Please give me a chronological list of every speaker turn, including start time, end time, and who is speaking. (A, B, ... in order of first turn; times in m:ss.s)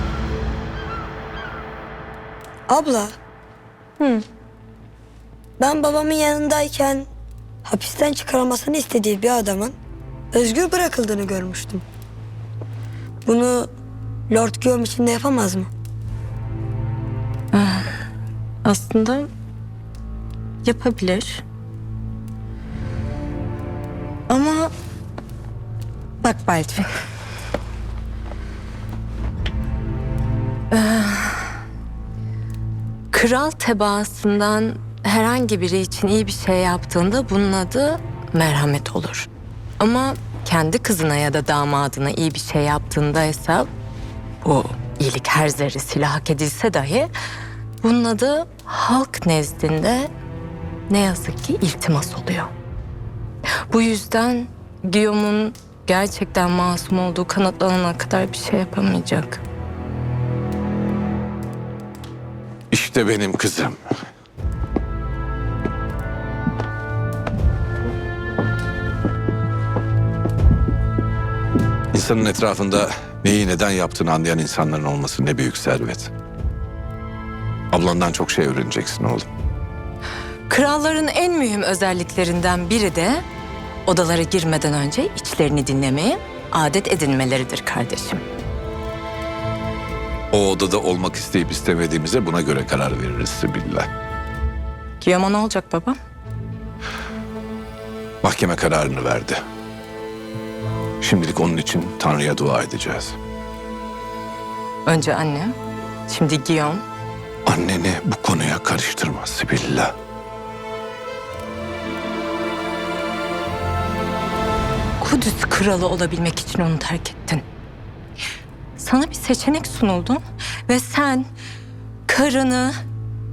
0:02.7-0:03.1 A
0:05.6-0:07.1 A
0:07.6-0:09.8 A
0:10.3-0:11.8 A
0:13.2-0:13.7 A
0:14.3-0:15.7 A
0:17.5-0:17.9 B
0:18.6-0:19.3 B
0:20.6-0:21.4 B
0:24.3-0:24.7 B
0:26.2-0:26.9 B
0:30.7-0:31.6 B
0:33.1-0:39.3 B
0:39.8-0:43.7 B
0:44.4-0:47.1 B
0:47.8-0:50.1 B
0:50.9-0:52.5 B
0:53.7-0:59.4 B
1:02.7-1:03.8 C
1:11.9-1:16.1 C
1:17.7-1:19.2 C
1:20.5-1:23.2 B
1:23.8-1:28.2 B
1:30.3-1:33.9 C
1:35.0-1:36.0 B
1:38.2-1:39.4 C
1:41.0-1:43.2 C
1:44.8-1:45.5 B
1:46.1-1:46.8 B
1:47.4-1:49.9 C
1:55.0-1:57.4 B
1:58.8-2:01.3 B
2:02.1-2:02.8 B